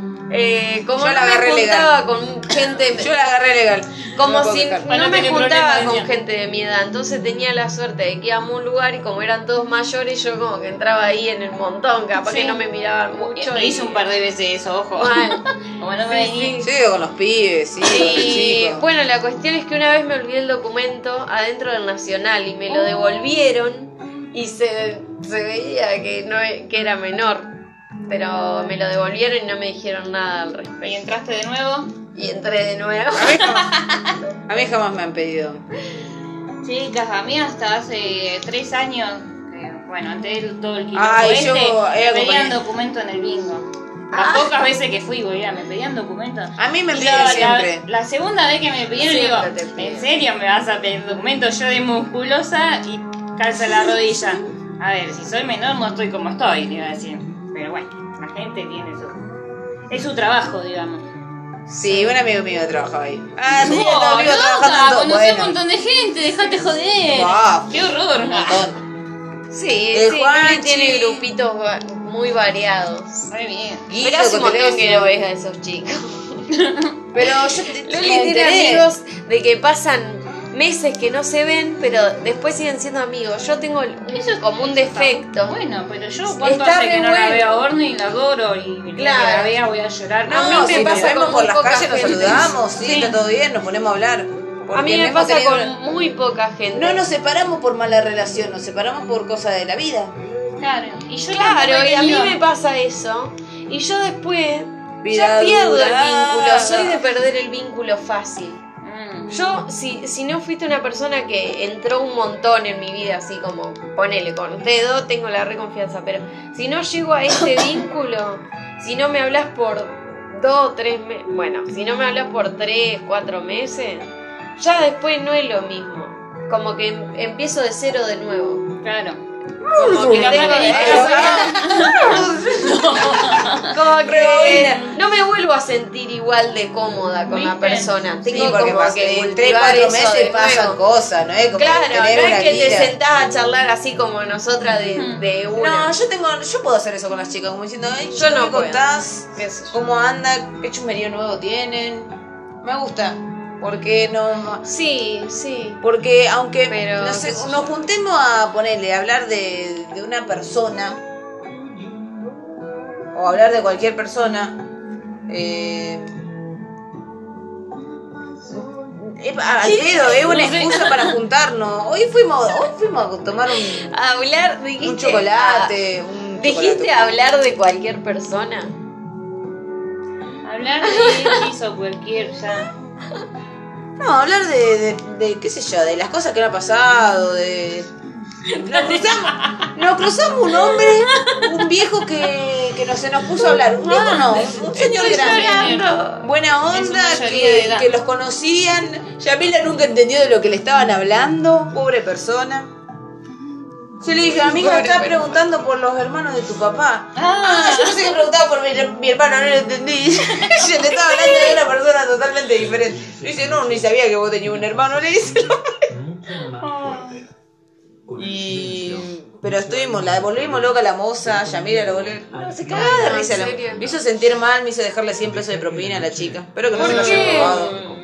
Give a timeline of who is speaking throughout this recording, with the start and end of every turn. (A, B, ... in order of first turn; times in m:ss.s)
0:00.3-0:03.2 A
0:01.0-0:01.9 B
0:03.0-0:04.9 B
0:04.1-0:14.0 A
0:04.9-0:06.1 C
0:12.2-0:12.6 C
0:13.1-0:16.6 C
0:15.0-0:15.5 A
0:16.1-0:16.7 A
0:16.6-0:18.8 B
0:17.8-0:27.5 A
0:28.1-0:31.1 A
0:30.8-0:31.9 C
0:32.2-0:33.6 A
0:33.2-0:33.7 B
0:34.5-0:35.6 B
0:36.6-0:59.2 C
0:41.0-0:42.6 B
0:44.1-0:44.5 A
0:46.6-0:47.8 B
0:49.0-0:50.2 A
0:59.9-1:01.1 C
1:01.7-1:05.6 B
1:01.8-1:02.1 A
1:03.5-1:08.6 C
1:07.1-1:08.8 B
1:09.5-1:13.3 A
1:09.9-1:11.2 B
1:13.3-1:13.9 C
1:13.9-1:15.2 B
1:14.0-1:16.5 A
1:16.5-1:16.9 C
1:17.1-1:18.9 B
1:17.2-1:25.6 A
1:24.1-1:31.2 C
1:26.3-1:27.6 A
1:29.0-1:29.6 A
1:30.3-1:32.6 A
1:30.3-1:35.7 B
1:32.8-1:33.2 C
1:34.7-1:37.0 A
1:36.7-1:40.1 B
1:40.6-1:42.4 C
1:41.3-1:48.6 A
1:45.0-1:47.0 B
1:48.8-1:49.4 C
1:49.3-2:08.7 A
2:08.8-2:09.2 C
2:09.6-2:15.0 B
2:09.8-2:12.2 A
2:09.9-2:13.7 C
2:13.6-2:20.8 A
2:17.3-2:17.9 C
2:18.2-2:22.9 B
2:21.6-2:25.9 A
2:25.0-2:25.2 C
2:25.6-2:34.6 B
2:28.1-2:29.8 A
2:34.6-2:35.8 A
2:35.8-2:41.0 B
2:36.7-2:37.8 A
2:43.1-2:44.6 B
2:45.3-2:46.1 B
2:48.9-2:53.9 B
2:49.6-2:51.0 A
2:50.3-2:51.0 C
2:53.6-2:55.8 A
2:54.8-2:57.0 B
2:56.4-2:58.7 A
3:00.4-3:02.7 C
3:00.8-3:01.4 A
3:04.0-3:07.9 B
3:08.5-3:09.3 A
3:08.6-3:22.7 B
3:09.3-3:09.7 C
3:13.8-3:16.0 C
3:14.3-3:16.3 A
3:16.7-3:17.9 C
3:24.0-3:35.8 B
3:24.4-3:25.4 A
3:27.2-3:28.1 C
3:30.5-3:31.6 C
3:36.4-3:37.2 C
3:38.1-3:47.8 B
3:42.6-3:43.9 A
3:46.8-3:47.8 C
3:46.8-3:48.0 A